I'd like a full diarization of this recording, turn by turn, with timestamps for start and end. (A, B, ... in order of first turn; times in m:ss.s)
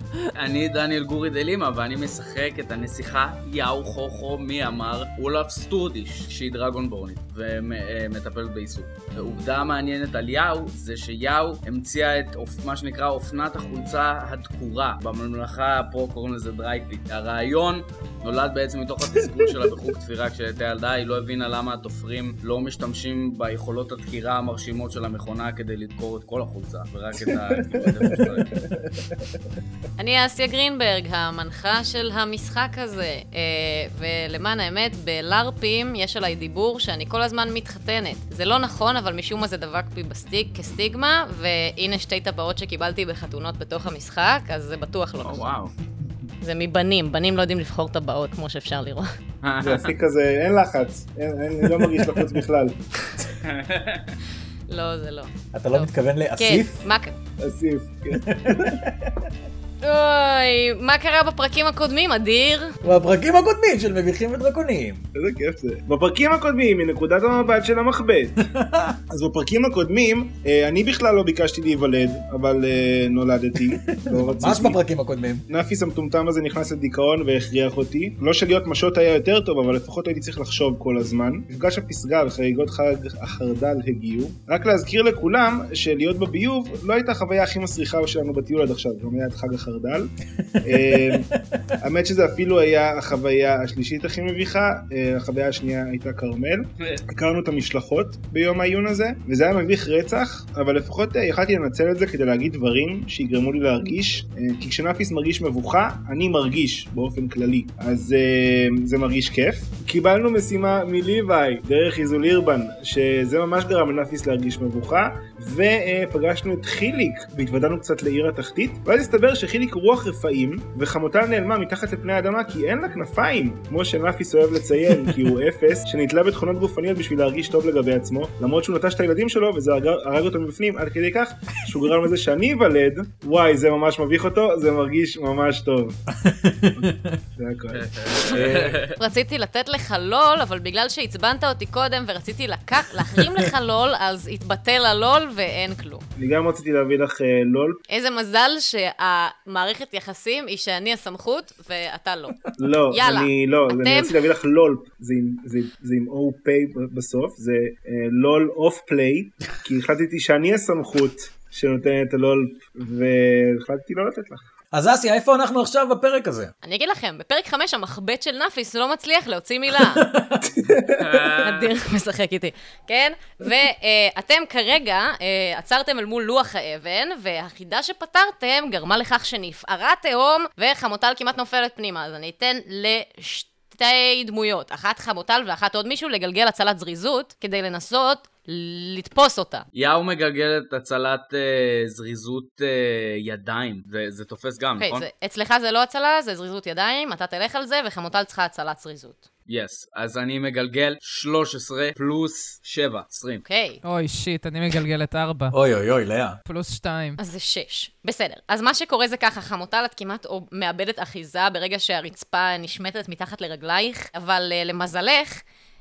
0:00.3-0:28.6 A
0:27.2-0:29.3 B
0:30.0-0:45.4 C
0:45.2-0:45.7 A
0:46.4-0:49.1 C
0:49.4-0:49.9 A
0:49.6-0:53.3 B
0:53.4-0:54.1 A
0:54.7-0:57.1 C
0:55.5-0:56.8 D
0:57.4-0:58.9 B
0:58.1-0:58.9 D
0:59.8-1:02.7 C
1:02.8-1:05.0 D
1:05.1-1:08.4 B
1:08.4-1:09.0 D
1:09.1-1:14.8 B
1:13.6-1:15.4 D
1:15.5-1:30.1 B
1:30.6-1:31.3 B
1:30.6-1:31.7 D
1:31.8-2:16.0 B
2:16.2-2:17.2 D
2:16.7-2:18.5 B
2:17.7-2:18.9 A
2:18.3-2:18.8 D
2:19.0-2:26.0 C
2:26.2-2:27.8 B
2:27.9-2:34.2 C
2:32.6-2:44.4 B
2:44.7-2:46.5 D
2:46.6-2:50.0 C
2:49.7-2:50.7 D
2:50.4-2:51.4 B
2:51.0-2:51.6 A
2:51.4-3:09.6 C
3:09.7-3:15.0 A
3:14.8-3:19.2 C
3:19.5-3:23.4 A
3:23.4-3:23.8 C
3:23.8-3:25.6 E
3:25.5-3:26.4 D
3:26.4-3:27.2 E
3:27.2-3:35.4 C